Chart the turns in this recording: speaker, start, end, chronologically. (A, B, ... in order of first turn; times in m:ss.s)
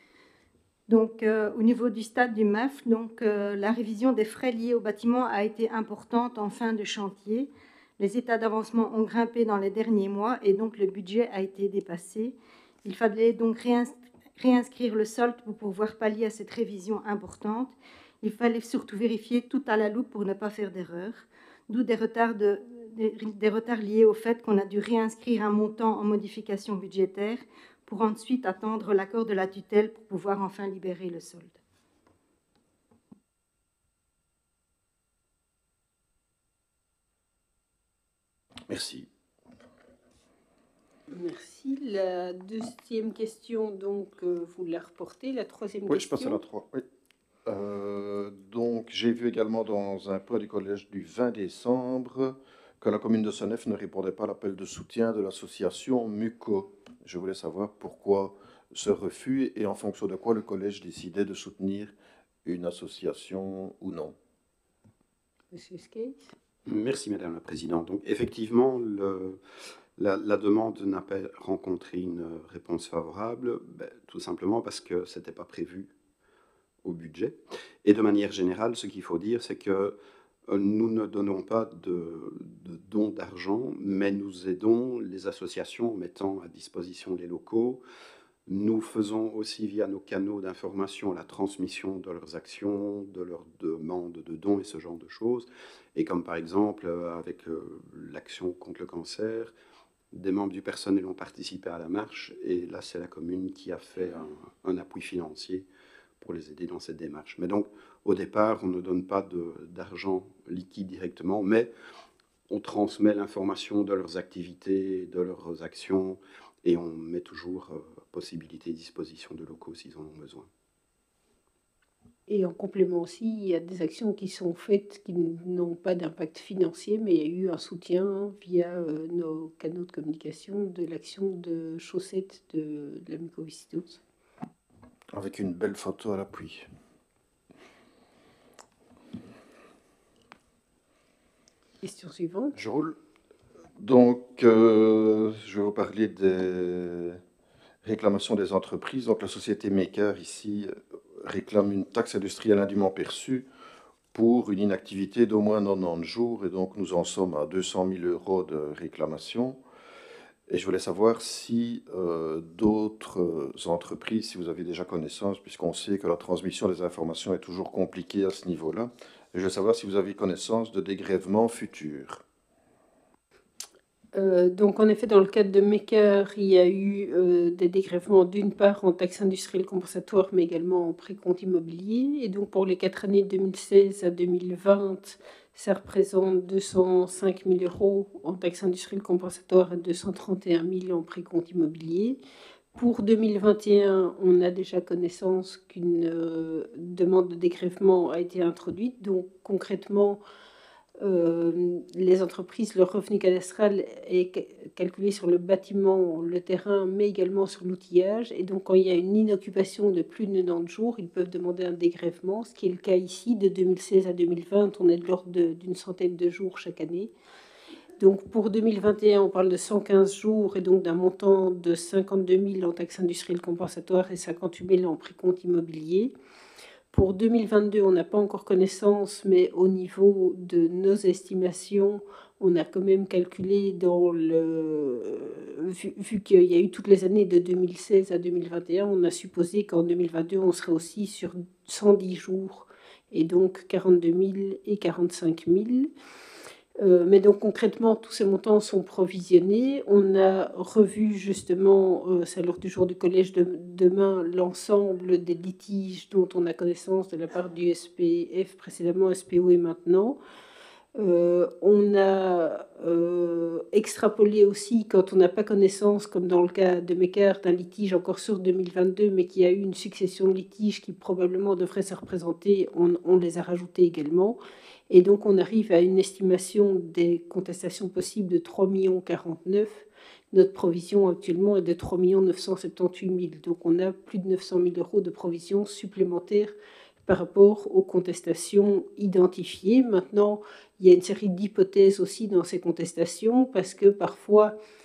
0:00.9-0:31.6 A
0:38.7-0:39.1 B
0:41.1-0:46.4 C
0:45.9-0:46.8 B
0:47.5-1:01.9 B
1:02.4-1:04.2 B
1:05.5-1:06.2 C
1:06.7-1:09.4 D
1:10.0-1:15.9 D
1:16.8-1:20.0 D
1:20.5-1:27.8 D
1:28.5-1:39.5 D
1:40.1-1:45.7 D
1:46.2-1:51.7 D
1:52.5-2:00.5 D
2:02.3-2:14.0 C
2:15.1-2:16.7 B
2:21.8-2:22.6 C
2:22.6-2:23.0 B
2:23.8-2:27.2 B
2:27.8-2:33.5 B
2:34.1-2:39.6 B
2:40.5-2:52.2 B
2:54.1-3:12.2 C
3:12.8-3:20.2 C
3:21.0-3:37.1 C
3:38.0-3:46.1 C
3:46.9-4:05.9 C
4:06.8-4:20.2 C
4:21.0-4:34.4 C
4:34.9-4:54.6 C